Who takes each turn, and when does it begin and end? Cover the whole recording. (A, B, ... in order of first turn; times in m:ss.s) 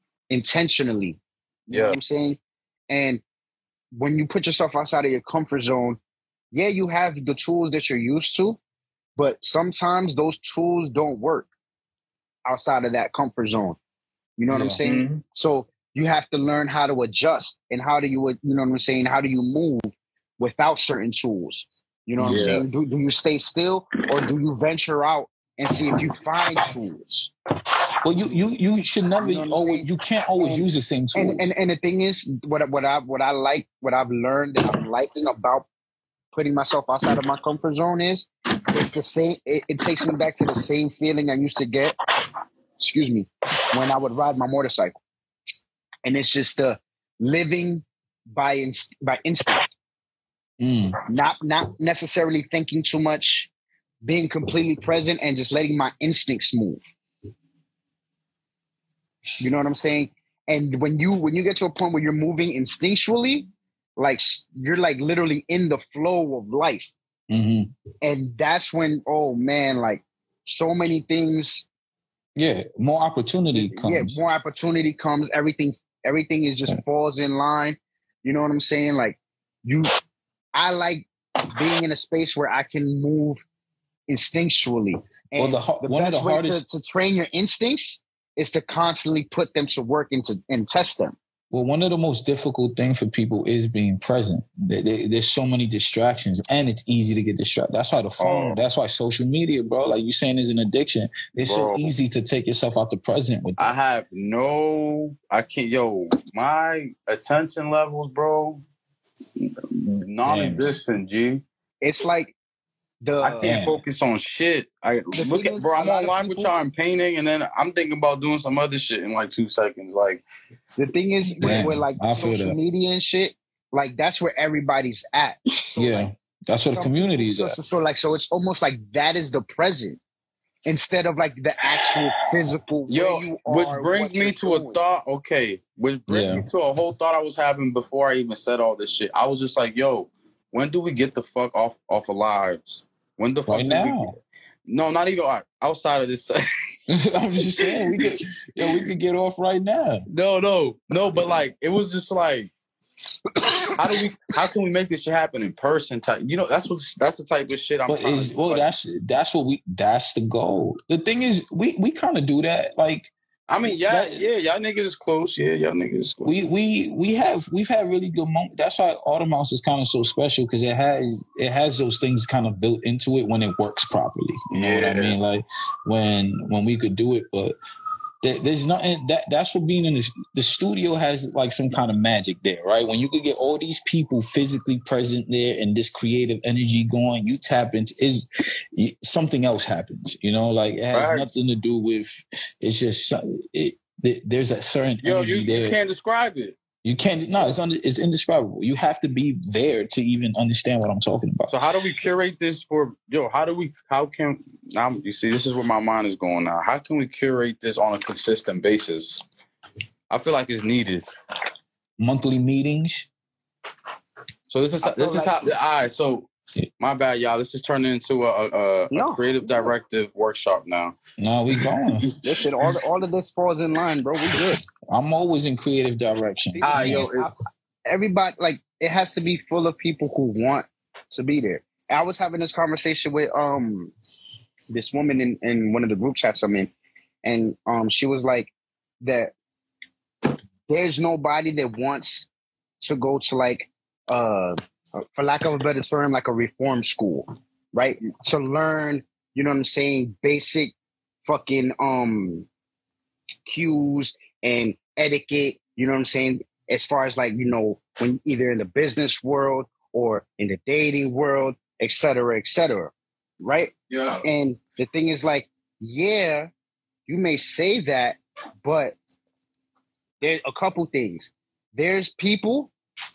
0:00.3-0:02.4 A
0:01.7-0:02.0 B
0:02.9-0:03.2 A
0:03.9-0:06.0 A
0:06.5-0:08.6 A
0:09.2-0:11.5 A
0:12.4-0:13.8 A
0:14.4-0:27.3 A
0:14.5-0:14.8 C
0:14.8-0:15.2 B
0:22.2-0:22.6 C
0:22.3-0:22.6 B
0:28.0-0:31.5 C
0:29.2-0:35.7 A
0:36.3-0:42.0 A
0:42.8-0:45.0 A
0:46.0-0:49.7 A
0:50.6-0:50.9 C
0:51.1-0:53.5 A
0:54.0-0:56.8 A
0:59.4-1:06.9 A
1:07.3-1:07.7 C
1:08.0-1:11.6 A
1:12.4-1:14.2 C
1:13.5-1:19.9 A
1:20.5-1:23.4 A
1:24.1-1:31.2 A
1:25.4-1:26.6 C
1:31.5-1:43.7 C
1:38.2-1:38.6 B
1:41.4-1:41.9 B
1:43.6-1:48.6 B
1:49.4-1:51.4 B
1:50.2-1:50.8 C
1:51.8-1:52.3 A
1:53.0-1:53.7 A
1:53.2-2:00.2 B
1:53.4-1:53.8 C
1:55.1-1:56.5 A
2:00.8-2:06.1 A
2:01.4-2:02.6 C
2:05.8-2:07.6 C
2:06.7-2:10.0 A
2:10.6-2:14.8 A
2:12.9-2:26.4 B
2:16.1-2:16.5 C
2:23.5-2:24.1 C
2:26.9-2:30.0 C
2:27.6-2:28.0 B
2:30.1-2:32.5 B
2:33.4-2:33.8 A
2:33.8-2:38.7 B
2:37.9-2:43.1 C
2:43.5-2:46.4 B
2:43.6-2:44.3 C
2:46.2-2:57.6 C
2:54.5-2:55.2 B
2:58.2-3:15.8 C
3:10.9-3:11.3 B
3:15.0-3:16.6 B
3:16.8-3:21.6 C
3:21.5-3:29.2 B
3:30.1-3:31.0 B
3:32.0-3:33.1 C
3:34.5-3:36.3 B
3:34.8-3:35.4 A
3:36.8-3:41.0 B
3:38.9-3:39.7 A
3:41.2-3:42.1 C
3:42.2-3:44.6 A
3:44.9-3:47.1 C
3:46.5-3:53.9 A
3:46.6-3:47.3 B
3:54.7-3:56.7 A
3:57.2-3:58.5 A
3:59.0-3:59.3 A
4:00.7-4:02.3 A
4:02.8-4:10.7 A
4:11.2-4:12.5 A
4:13.4-4:23.7 A
4:23.9-4:24.2 B
4:24.2-4:26.5 A
4:27.1-4:28.9 A
4:30.2-4:32.7 A